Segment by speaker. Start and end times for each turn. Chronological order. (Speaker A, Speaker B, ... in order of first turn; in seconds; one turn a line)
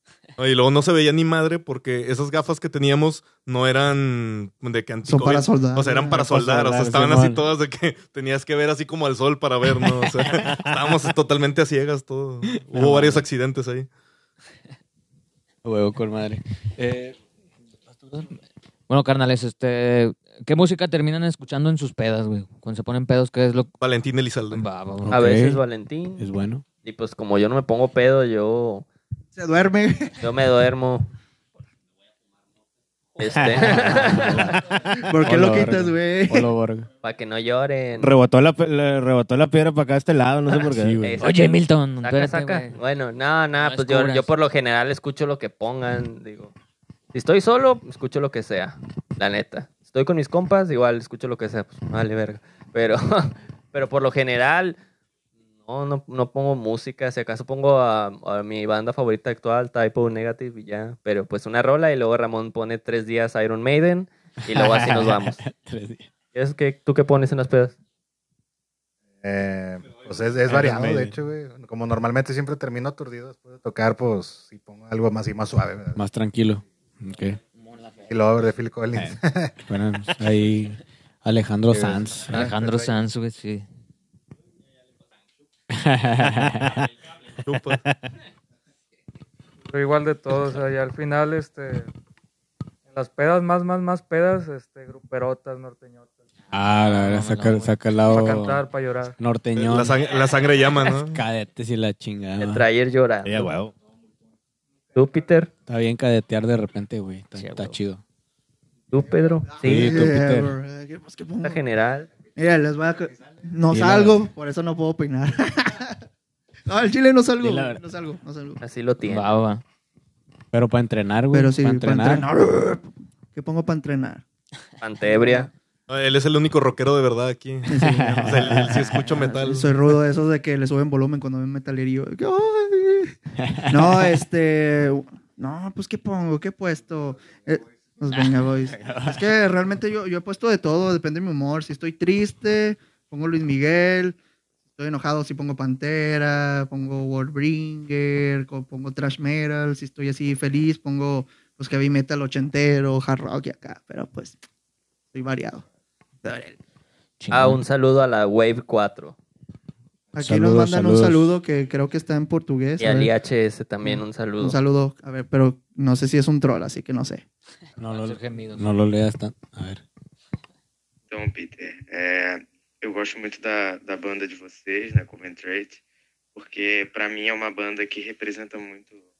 Speaker A: 0.4-13.9
Speaker B: 5.0-6.3
Speaker C: 6.2-7.4
Speaker C: 12.5-13.2
Speaker C: 15.6-17.1
Speaker D: 18.9-23.7
Speaker A: 23.8-24.6
Speaker D: 24.5-25.1
Speaker C: 25.0-25.6
Speaker E: 25.1-26.2
Speaker C: 26.2-26.6
Speaker E: 26.8-28.9
Speaker B: 29.3-30.3
Speaker E: 30.2-31.1
Speaker E: 33.2-34.6
Speaker C: 33.2-36.9
Speaker B: 34.9-36.5
Speaker E: 37.0-38.1
Speaker F: 38.0-41.0
Speaker C: 40.7-41.2
Speaker E: 41.0-46.5
Speaker D: 41.2-42.7
Speaker D: 43.6-44.3
Speaker E: 47.1-54.8
Speaker E: 55.6-65.4
Speaker C: 64.4-66.1
Speaker E: 66.3-67.7
Speaker G: 69.2-76.0
Speaker C: 70.5-71.2
Speaker C: 76.0-77.4
Speaker G: 78.0-79.5
Speaker C: 79.7-82.5
Speaker G: 81.7-82.9
Speaker D: 82.3-83.7
Speaker C: 85.7-86.9
Speaker A: 87.4-87.8
Speaker H: 89.7-91.9
Speaker H: 92.9-96.1
Speaker C: 96.5-98.6
Speaker D: 96.8-97.7
Speaker H: 98.1-99.2
Speaker C: 99.2-100.0
Speaker A: 99.5-101.2
Speaker C: 100.9-102.6
Speaker E: 102.4-103.5
Speaker F: 103.2-103.7
Speaker E: 104.9-105.5
Speaker C: 105.7-108.0
Speaker D: 107.3-107.8
Speaker E: 108.9-110.0
Speaker B: 109.5-111.6
Speaker C: 109.6-110.5
Speaker E: 111.4-112.1
Speaker B: 112.3-116.0
Speaker C: 113.7-114.2
Speaker B: 116.7-118.6
Speaker C: 117.4-117.8
Speaker E: 118.6-119.3
Speaker D: 119.0-119.6
Speaker C: 120.5-122.2
Speaker B: 121.3-124.2
Speaker E: 124.8-125.5
Speaker B: 125.1-125.5
Speaker A: 125.9-129.7
Speaker B: 127.7-133.2
Speaker C: 127.9-129.0
Speaker B: 133.7-144.2
Speaker B: 144.8-154.4
Speaker B: 155.1-155.6
Speaker B: 156.2-156.6
Speaker D: 157.2-157.6
Speaker E: 157.3-159.2
Speaker B: 160.1-163.1
Speaker C: 160.2-161.3
Speaker E: 162.8-164.6
Speaker B: 163.8-167.2
Speaker C: 167.8-169.8
Speaker D: 168.0-168.7
Speaker I: 171.1-175.8
Speaker I: 176.3-179.0